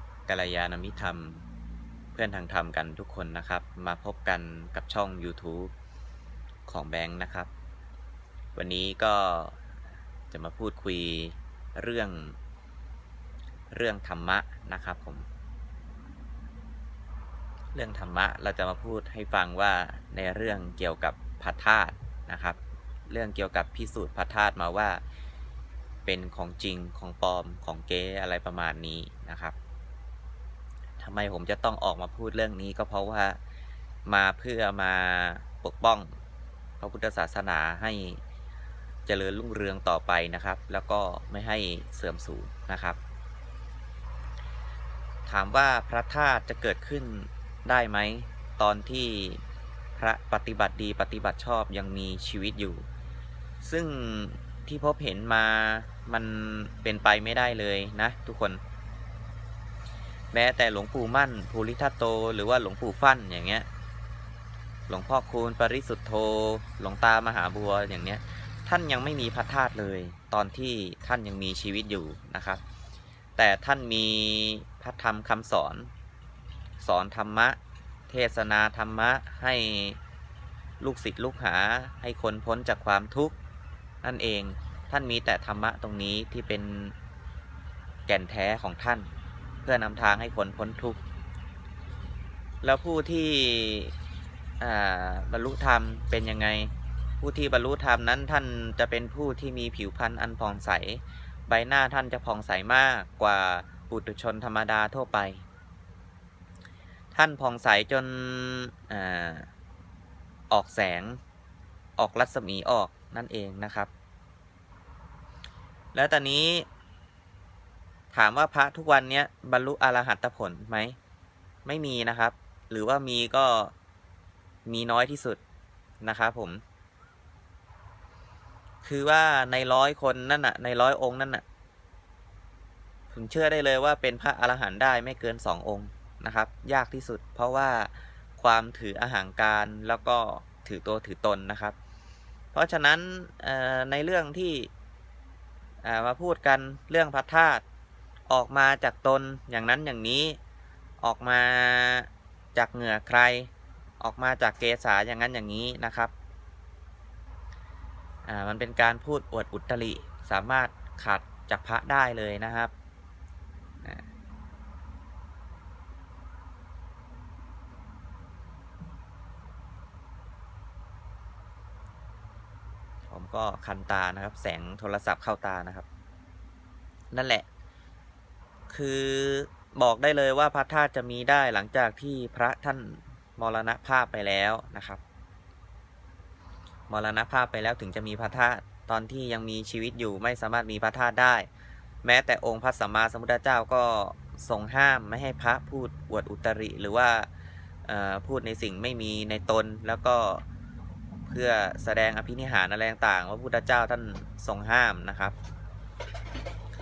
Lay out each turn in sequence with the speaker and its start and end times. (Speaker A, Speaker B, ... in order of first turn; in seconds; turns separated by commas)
Speaker A: 0.3-1.5, Speaker A: 2.1-5.7, Speaker A: 6.7-7.5, Speaker A: 8.6-9.6, Speaker A: 10.3-12.4, Speaker A: 13.7-15.3, Speaker A: 17.7-25.0, Speaker A: 26.1-29.6, Speaker A: 31.0-33.4, Speaker A: 34.1-36.1, Speaker A: 36.8-38.2, Speaker A: 39.1-43.0, Speaker A: 45.3-49.4, Speaker A: 50.0-52.9, Speaker A: 53.6-58.6, Speaker A: 60.3-63.7, Speaker A: 64.9-72.6, Speaker A: 73.4-75.9, Speaker A: 76.8-77.6, Speaker A: 78.1-80.0, Speaker A: 80.8-83.4, Speaker A: 84.0-87.0, Speaker A: 88.1-89.1, Speaker A: 89.6-91.0, Speaker A: 92.6-93.9, Speaker A: 94.6-105.4, Speaker A: 107.1-109.5, Speaker A: 110.5-111.2, Speaker A: 112.0-113.9, Speaker A: 115.9-116.7, Speaker A: 118.1-121.0, Speaker A: 121.7-123.7, Speaker A: 124.7-125.4, Speaker A: 126.0-126.6, Speaker A: 128.8-131.4, Speaker A: 133.1-141.8, Speaker A: 142.5-144.7, Speaker A: 145.8-147.6, Speaker A: 148.3-150.4, Speaker A: 151.0-156.1, Speaker A: 158.3-162.7, Speaker A: 173.1-175.9, Speaker A: 177.1-177.5, Speaker A: 178.7-185.0, Speaker A: 186.9-191.5, Speaker A: 192.0-197.3, Speaker A: 197.8-200.4, Speaker A: 201.3-205.3